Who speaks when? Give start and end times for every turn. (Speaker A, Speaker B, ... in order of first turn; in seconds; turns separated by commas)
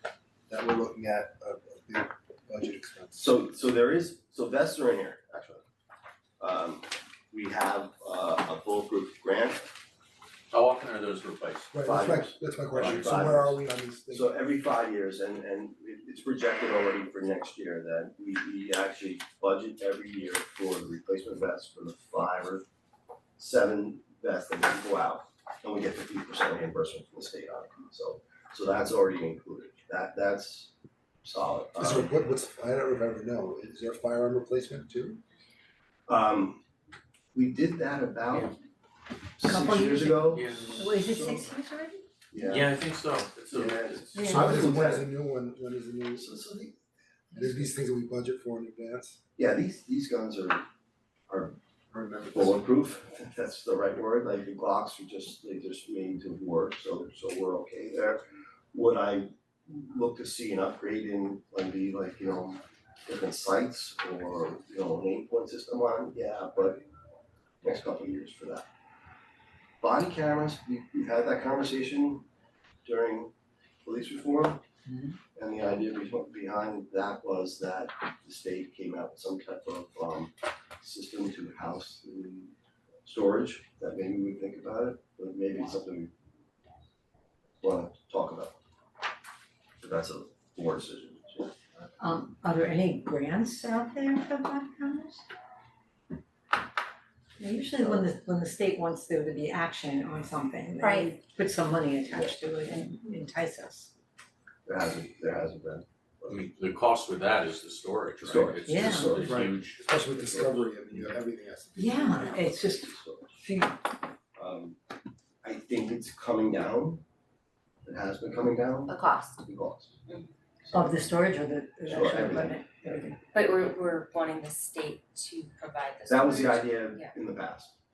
Speaker A: 0.5-3.3, Speaker B: 3.1-5.6, Speaker B: 6.4-9.7, Speaker C: 10.5-12.1, Speaker A: 11.7-14.3, Speaker B: 11.8-22.6, Speaker C: 12.7-13.2, Speaker B: 23.4-32.1, Speaker A: 31.8-35.2, Speaker B: 36.1-36.6, Speaker B: 37.3-38.5, Speaker B: 39.4-41.5, Speaker D: 39.4-42.0, Speaker C: 40.3-40.8, Speaker B: 42.3-42.7, Speaker C: 42.4-44.5, Speaker B: 43.5-45.1, Speaker D: 44.1-44.4, Speaker A: 44.3-46.3, Speaker B: 46.1-46.8, Speaker A: 47.3-49.2, Speaker B: 49.4-50.6, Speaker B: 51.3-51.6, Speaker A: 51.9-52.6, Speaker B: 52.3-66.8, Speaker B: 67.6-68.7, Speaker B: 69.8-72.2, Speaker B: 72.8-73.3, Speaker B: 73.8-74.6, Speaker D: 74.9-75.2, Speaker B: 75.3-82.5, Speaker B: 83.0-86.1, Speaker B: 87.6-88.6, Speaker B: 89.8-91.6, Speaker D: 92.0-95.2, Speaker D: 97.4-103.9, Speaker B: 97.8-98.0, Speaker E: 100.8-101.1, Speaker B: 102.1-102.3, Speaker B: 104.7-106.4, Speaker C: 106.3-110.4, Speaker B: 108.2-109.4, Speaker D: 108.7-109.2, Speaker A: 109.2-112.4, Speaker D: 111.7-113.8, Speaker B: 112.2-113.4, Speaker B: 114.3-114.8, Speaker B: 115.4-117.0, Speaker B: 117.8-120.0, Speaker E: 118.9-119.4, Speaker B: 120.6-120.9, Speaker D: 120.7-123.2, Speaker B: 121.9-122.6, Speaker E: 123.3-127.1, Speaker B: 126.0-127.7